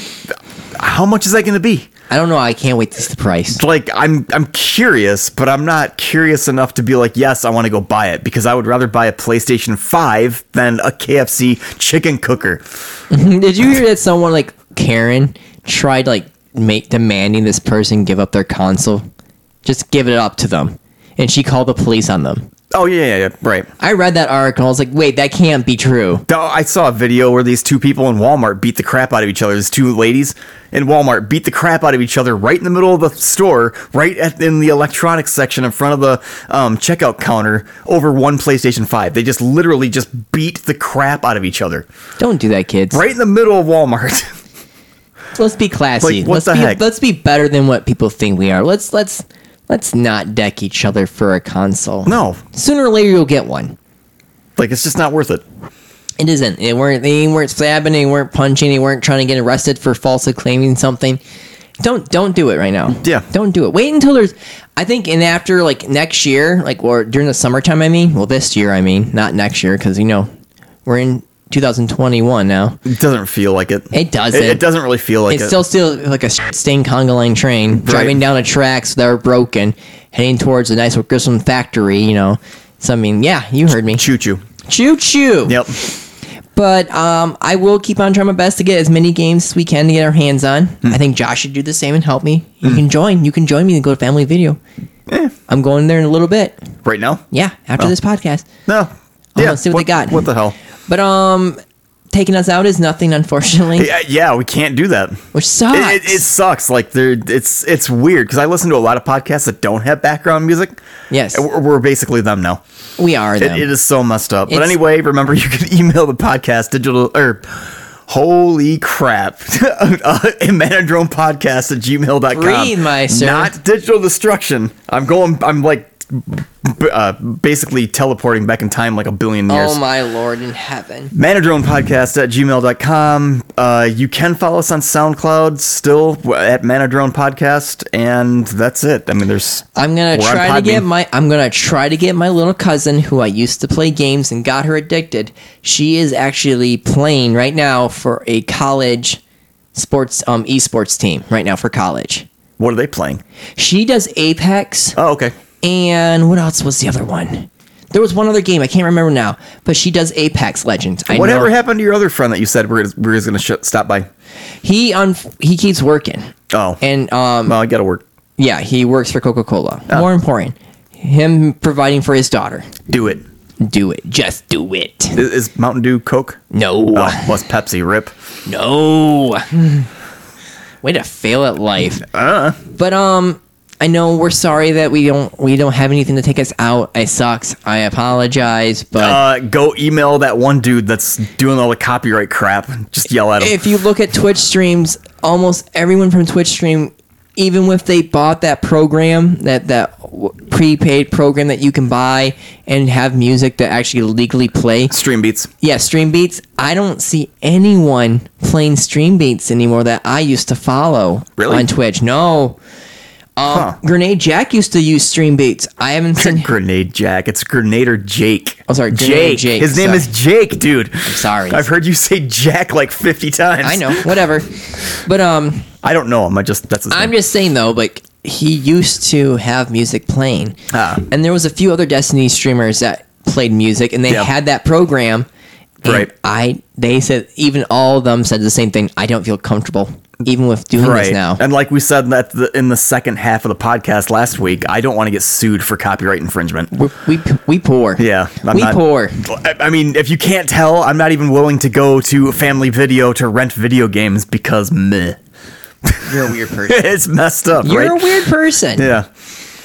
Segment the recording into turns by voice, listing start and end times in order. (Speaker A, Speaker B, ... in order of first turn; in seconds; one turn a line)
Speaker A: 0.3-1.9
Speaker B: 2.1-3.6
Speaker A: 3.5-12.6
Speaker B: 13.1-19.1
Speaker B: 19.6-22.5
Speaker A: 22.7-23.7
Speaker B: 23.8-26.2
Speaker A: 26.3-41.9
Speaker B: 42.2-43.0
Speaker A: 42.9-44.4
Speaker B: 45.4-53.8
Speaker A: 46.0-46.8
Speaker A: 52.1-52.4
Speaker A: 54.6-55.4
Speaker B: 56.2-61.2
Speaker B: 61.8-70.3
Speaker A: 63.0-63.3
Speaker B: 70.8-72.8
Speaker A: 72.8-75.6
Speaker B: 73.9-74.6
Speaker B: 75.3-84.0
Speaker A: 77.7-78.2
Speaker A: 83.9-84.4
Speaker B: 84.7-85.6
Speaker A: 85.5-85.8
Speaker B: 86.5-94.6
Speaker A: 95.1-95.3
Speaker B: 95.5-96.6
Speaker A: 96.8-97.2
Speaker B: 97.3-98.5
Speaker A: 98.7-100.5
Speaker B: 99.4-100.3
Speaker B: 100.9-101.6
Speaker B: 102.1-103.9
Speaker A: 103.8-110.8
Speaker B: 105.3-106.3
Speaker B: 111.1-111.5
Speaker A: 111.3-112.6
Speaker B: 113.0-113.7
Speaker A: 113.4-129.8
Speaker B: 114.5-114.8
Speaker B: 122.3-123.5
Speaker B: 129.5-131.1
Speaker A: 131.2-140.9
Speaker B: 139.8-149.2
Speaker B: 149.7-152.3
Speaker A: 152.6-153.2
Speaker B: 153.6-155.0
Speaker A: 155.0-155.3
Speaker B: 155.6-161.5
Speaker A: 161.1-164.1
Speaker B: 164.6-167.6
Speaker A: 166.5-166.8
Speaker A: 167.5-168.0
Speaker B: 168.4-172.7
Speaker A: 172.9-173.2
Speaker B: 173.6-175.2
Speaker A: 175.2-176.4
Speaker B: 176.5-177.3
Speaker A: 176.9-178.1
Speaker B: 178.5-179.9
Speaker B: 180.8-182.1
Speaker A: 182.1-182.6
Speaker B: 182.7-189.2
Speaker A: 189.0-193.6
Speaker B: 193.4-204.9
Speaker A: 204.9-205.5
Speaker B: 205.6-212.6
Speaker A: 211.4-211.7
Speaker B: 213.4-216.5
Speaker A: 213.5-213.8
Speaker A: 216.2-224.2
Speaker B: 218.7-220.1
Speaker B: 221.1-221.6
Speaker B: 223.6-225.7
Speaker A: 225.8-227.1
Speaker B: 226.9-235.3
Speaker A: 230.7-231.0
Speaker B: 235.8-241.4
Speaker A: 235.8-236.1
Speaker A: 240.8-246.7
Speaker B: 246.7-249.2
Speaker A: 248.0-255.2
Speaker A: 255.8-259.1
Speaker B: 256.1-256.9
Speaker B: 257.6-258.9